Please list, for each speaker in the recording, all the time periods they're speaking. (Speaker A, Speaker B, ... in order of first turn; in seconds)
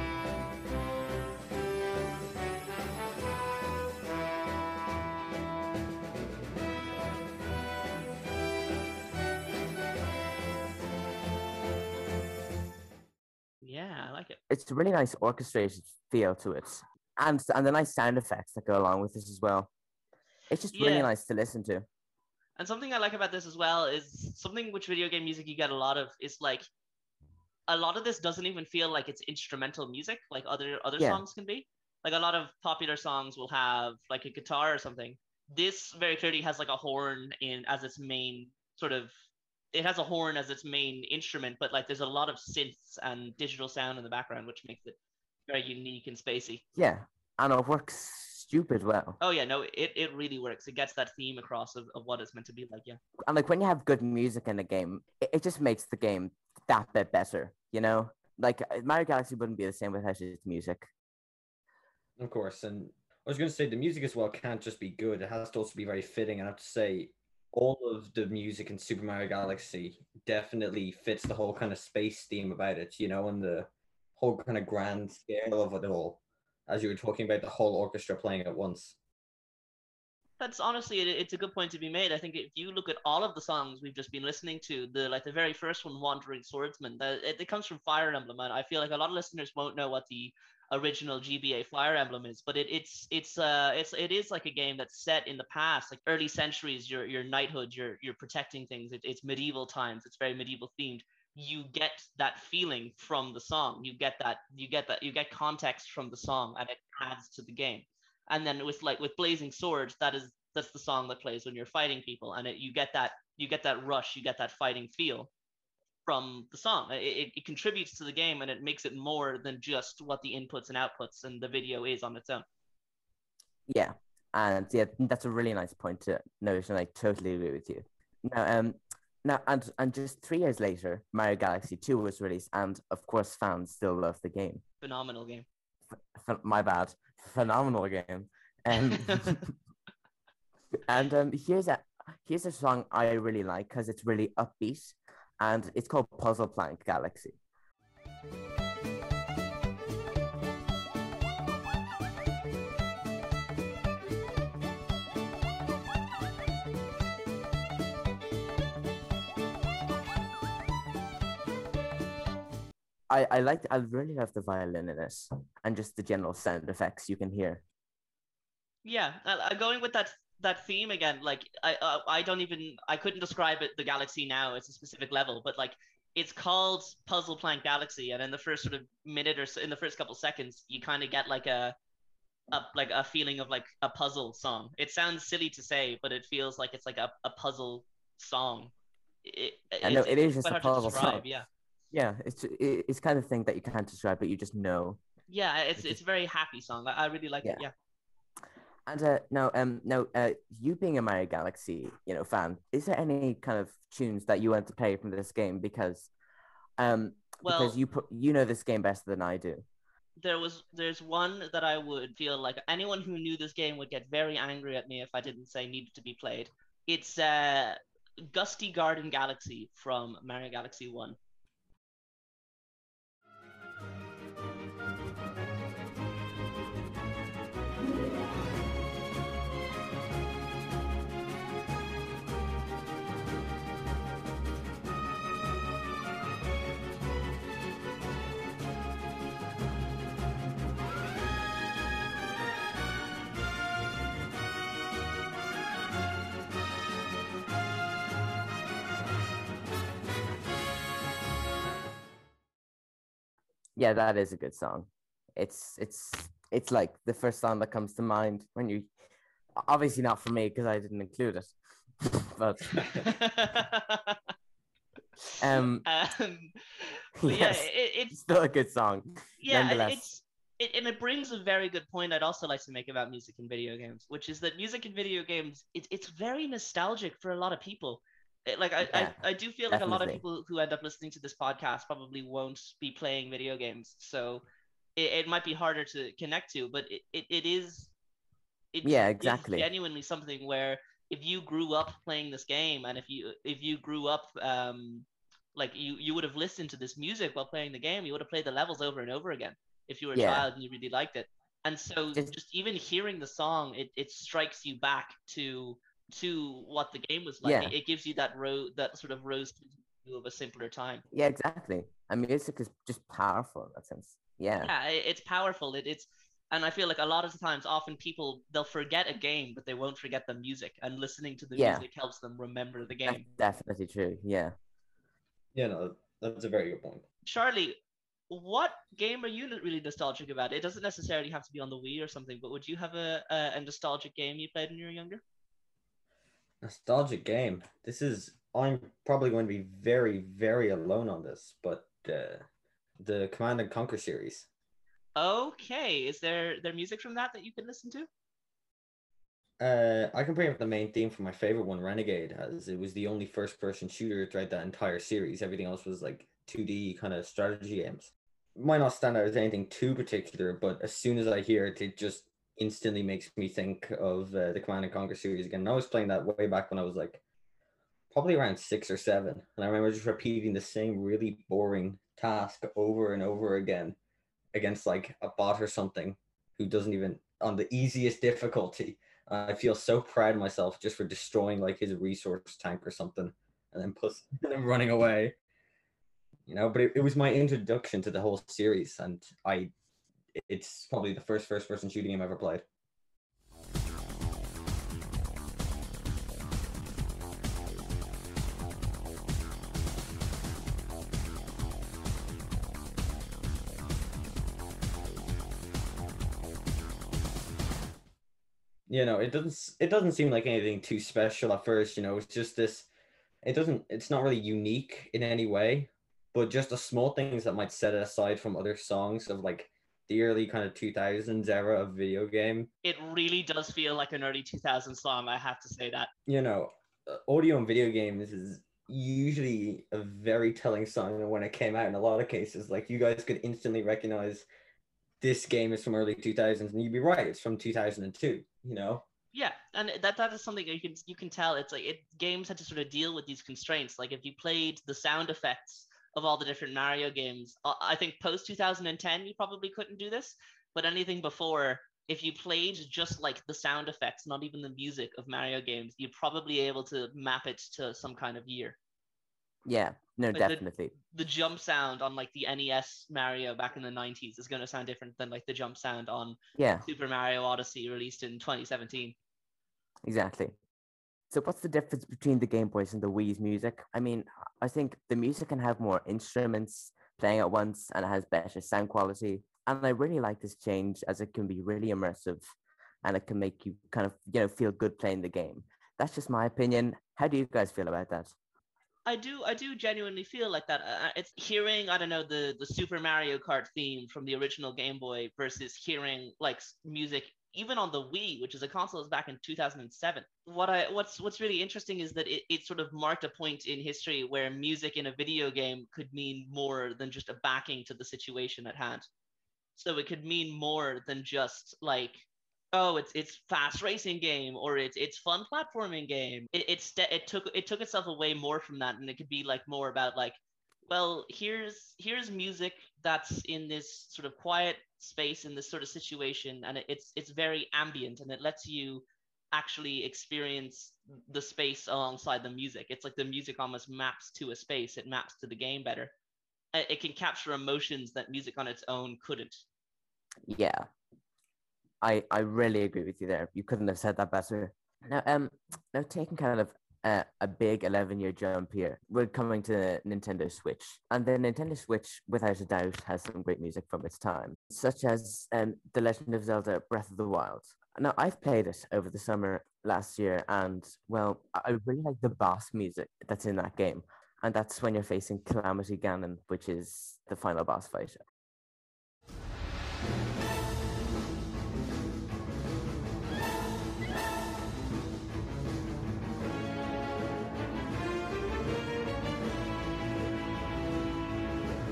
Speaker A: 13.6-14.4, 20.7-21.1, 22.6-26.7, 27.7-39.1, 39.7-45.0, 45.5-46.6, 49.2-53.0, 80.4-115.3, 116.1-122.5, 134.8-135.5, 138.7-139.4, 168.8-181.8, 182.5-188.7, 189.2-191.5, 195.3-197.7, 207.4-207.8, 210.2-221.2, 262.9-264.2, 265.9-268.2, 269.4-284.4, 285.0-287.9, 288.7-311.0, 314.6-323.3, 327.2-327.8, 328.3-335.2, 345.2-348.1, 422.8-426.1, 439.3-458.8, 460.3-469.2, 489.1-509.1, 509.8-536.1, 536.7-539.6
Speaker B: 14.5-19.7, 20.5-21.9, 31.0-31.2, 46.8-49.2, 53.3-60.9, 123.7-134.6, 136.1-139.5, 140.8-147.4, 163.1-167.6, 189.8-191.3, 191.9-195.0, 198.9-206.1, 206.8-209.6, 253.8-258.9, 259.6-262.9, 265.4-265.9, 267.2-270.1, 278.8-280.2, 288.8-289.7, 300.1-300.5, 307.4-307.7, 311.1-314.7, 321.6-321.9, 323.1-324.6, 459.6-460.9, 466.6-466.9, 470.1-470.6, 471.3-482.5, 483.0-488.3, 540.5-540.9, 542.0-568.2
Speaker C: 62.2-79.0, 325.6-327.0, 336.6-342.5, 343.0-344.5, 349.6-367.2, 368.1-374.0, 374.5-385.4, 386.5-389.7, 390.4-392.6, 408.9-412.9, 413.4-422.7, 426.3-434.5, 435.2-439.0